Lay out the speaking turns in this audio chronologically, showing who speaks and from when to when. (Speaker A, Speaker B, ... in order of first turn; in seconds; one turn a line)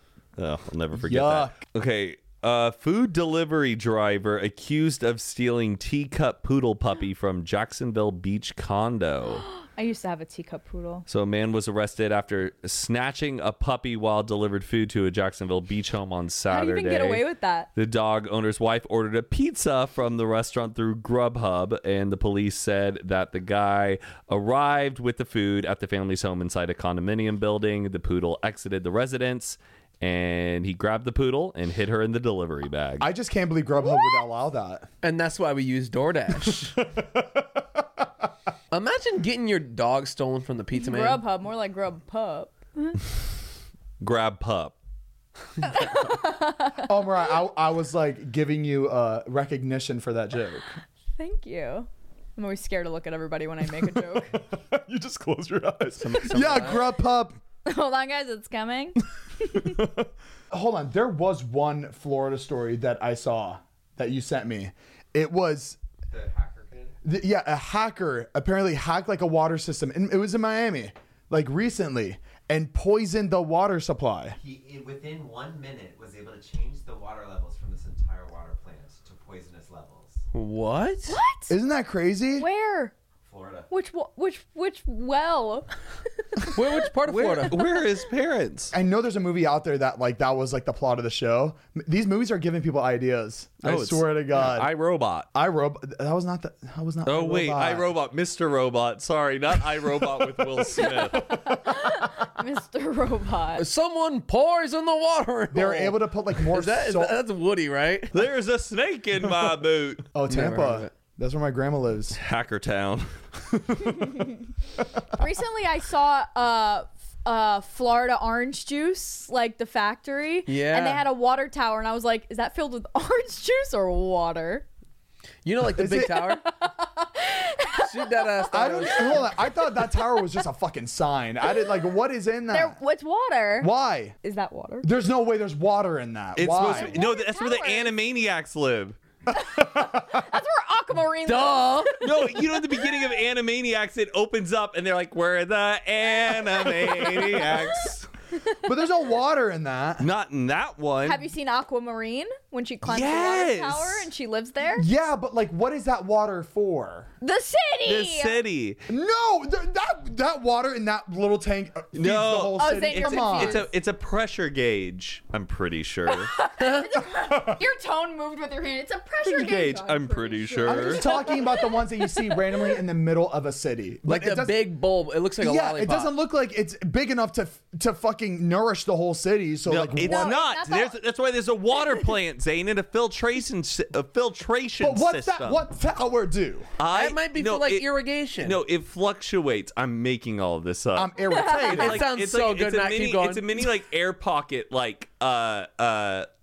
Speaker A: 0.3-9.4
Speaker B: 0.9-1.6
Speaker C: 9.4-11.1
Speaker A: 11.1-33.1
Speaker C: 16.5-17.7
Speaker B: 33.0-34.9
Speaker C: 33.8-34.2
Speaker D: 35.0-36.8
Speaker B: 37.0-37.8
Speaker D: 38.7-41.2
Speaker C: 40.7-43.0
Speaker A: 44.0-44.8
Speaker C: 45.6-46.9
Speaker B: 46.8-50.7
Speaker C: 51.2-54.4
Speaker B: 53.7-57.4
Speaker D: 56.0-56.9
Speaker A: 56.2-56.7
Speaker C: 57.6-59.7
Speaker B: 60.5-65.8
Speaker B: 67.0-74.4
Speaker E: 75.0-78.8
Speaker E: 79.3-80.0
Speaker D: 80.3-81.1
Speaker C: 81.1-81.5
Speaker B: 81.5-82.5
Speaker C: 82.4-82.9
Speaker C: 83.7-85.7
Speaker C: 86.2-86.8
Speaker D: 86.5-87.7
Speaker A: 87.0-88.7
Speaker B: 88.7-94.7
Speaker A: 93.6-95.3
Speaker B: 95.3-97.9
Speaker A: 97.0-101.4
Speaker B: 100.0-101.6
Speaker C: 100.8-103.6
Speaker D: 103.6-108.2
Speaker B: 105.5-107.2
Speaker A: 108.1-110.1
Speaker B: 110.1-112.2
Speaker D: 110.3-110.9
Speaker A: 112.1-114.1
Speaker C: 115.2-124.7
Speaker D: 120.5-121.0
Speaker D: 125.4-126.4
Speaker B: 125.7-126.3
Speaker C: 126.4-130.0
Speaker D: 127.8-129.3
Speaker B: 128.5-132.8
Speaker C: 132.5-133.7
Speaker B: 133.6-134.1
Speaker C: 134.2-134.9
Speaker B: 134.8-137.0
Speaker A: 136.3-139.0
Speaker C: 136.6-137.9
Speaker B: 139.3-140.2
Speaker C: 139.3-142.4
Speaker D: 141.2-142.0
Speaker A: 142.0-148.1
Speaker C: 146.2-147.6
Speaker B: 148.6-150.1
Speaker A: 150.0-151.3
Speaker C: 151.0-154.9
Speaker A: 152.8-154.1
Speaker B: 154.8-157.1
Speaker C: 157.2-158.4
Speaker A: 157.8-158.8
Speaker B: 158.9-163.6
Speaker A: 161.9-166.3
Speaker C: 162.5-163.7
Speaker C: 166.1-172.7
Speaker D: 166.6-166.9
Speaker B: 167.0-167.6
Speaker A: 169.2-171.1
Speaker B: 170.6-174.7
Speaker D: 174.1-176.1
Speaker B: 175.4-180.4
Speaker A: 179.7-185.6
Speaker C: 180.0-180.9
Speaker B: 184.8-186.7
Speaker A: 186.8-187.8
Speaker D: 186.9-188.6
Speaker A: 188.4-196.3
Speaker B: 190.9-192.1
Speaker C: 191.3-191.7
Speaker D: 191.7-193.7